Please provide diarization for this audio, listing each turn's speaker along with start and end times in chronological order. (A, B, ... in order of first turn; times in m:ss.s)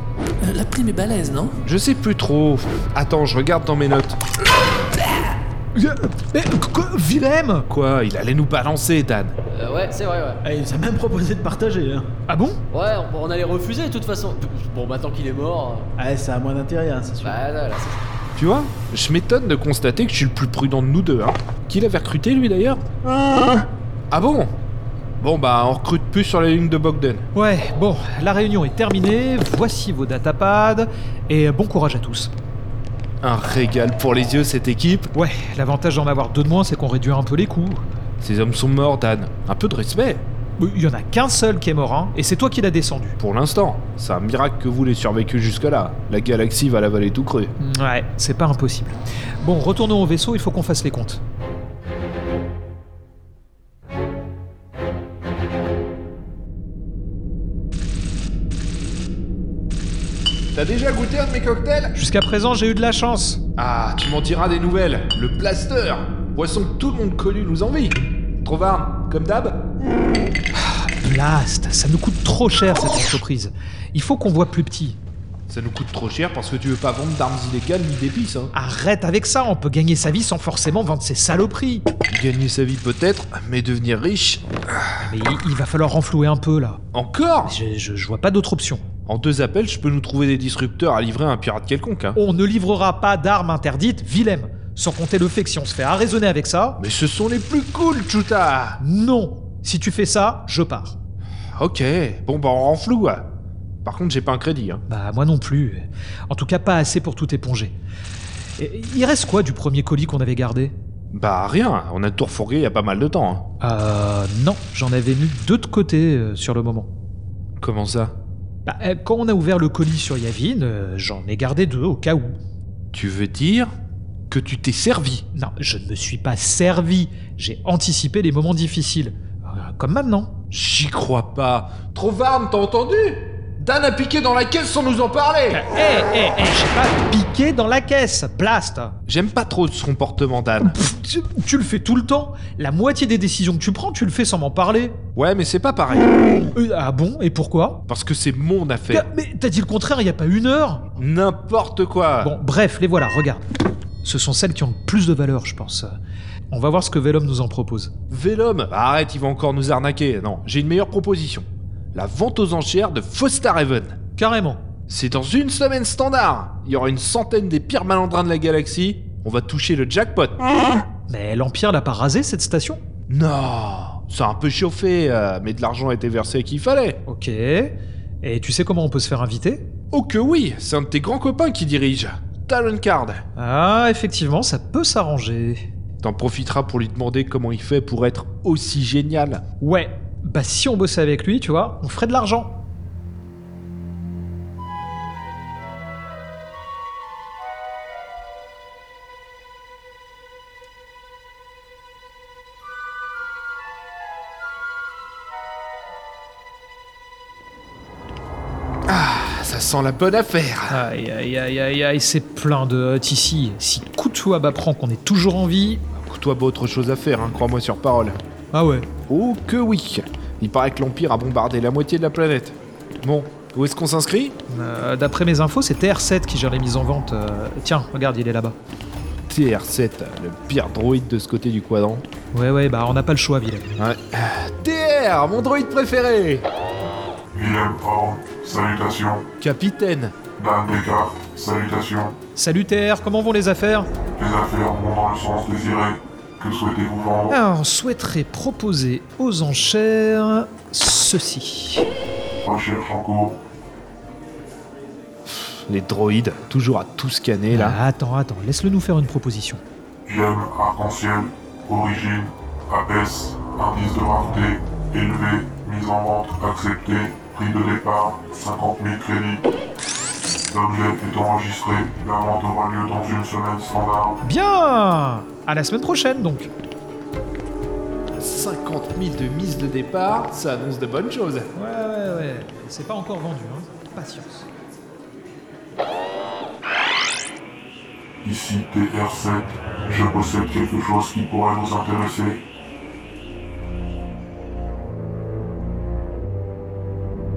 0:00.4-0:01.6 A
0:01.6-0:04.2 B
0:05.8-0:07.7 C
0:07.7-0:09.3 B
0:09.6-0:10.4 D
0:10.5-0:12.0 A
0:12.3-0:12.6 C
0:12.7-0:15.9 D
0:16.0-0:17.3 A
0:17.2-0:18.0 D
0:18.4-0:22.8 B
0:24.1-0:24.6 B
0:25.2-0:27.2 B
0:27.3-0:32.3 C
0:33.2-0:35.1 B
0:35.1-0:37.8 C
0:38.2-0:40.2 B
0:40.6-0:43.2 C
0:43.2-0:47.5 B
0:47.6-0:51.2 C
1:00.5-1:01.9 B
1:02.0-1:03.4 C
1:03.6-1:09.6 B
1:10.6-1:15.0 C
1:15.5-1:18.5 B
1:18.5-1:21.8 C
1:22.1-1:24.8 B
1:25.0-1:26.8 C
1:26.9-1:27.5 B
1:27.4-1:28.8 C
1:29.1-1:32.2 B
1:32.2-1:36.8 C
1:36.8-1:38.8 B
1:38.8-1:41.0 C
1:41.6-1:43.2 B
1:43.8-1:44.8 B
1:44.9-1:47.8 C
1:48.6-1:50.8 C
1:51.1-1:53.4 B
1:53.6-1:56.9 C
1:57.6-1:58.1 B
1:58.7-2:02.4 C
2:02.9-2:03.7 B
2:04.3-2:05.2 B
2:05.3-2:10.4 C
2:10.5-2:15.6 B
2:15.5-2:19.0 C
2:19.1-2:20.8 B
2:20.6-2:25.0 C
2:25.2-2:26.1 B
2:26.5-2:27.8 C
2:27.9-2:29.1 B
2:28.9-2:30.9 C
2:31.0-2:32.3 B
2:32.2-2:33.4 C
2:34.0-2:36.0 C
2:36.5-2:37.9 C
2:38.1-2:44.0 B
2:44.2-2:44.6 C
2:44.9-2:50.4 B
2:51.1-2:52.8 C
2:53.1-2:57.0 B
2:57.1-2:59.7 C
2:59.9-3:03.2 B
3:03.4-3:05.6 C
3:06.0-3:09.4 B
3:09.6-3:12.6 C
3:28.9-3:30.8 B
3:30.7-3:35.8 C
3:35.9-3:38.2 B
3:38.5-3:38.9 C
3:39.1-3:44.3 B
3:44.5-3:48.6 C
3:49.3-3:52.0 B
3:52.3-3:53.8 C
3:53.8-3:56.5 B
3:57.3-3:59.2 E
3:59.4-4:00.2 B
4:00.4-4:02.1 E
4:02.4-4:03.9 C
4:04.2-4:07.3 E
4:07.3-4:11.8 C
4:12.5-4:13.4 E
4:15.3-4:17.8 B
4:17.5-4:19.6 C
4:20.1-4:29.4 E
4:30.5-4:34.2 E
4:34.2-4:36.5 C
4:38.1-4:41.5 B
4:41.6-4:44.5 C
4:48.2-4:52.4 E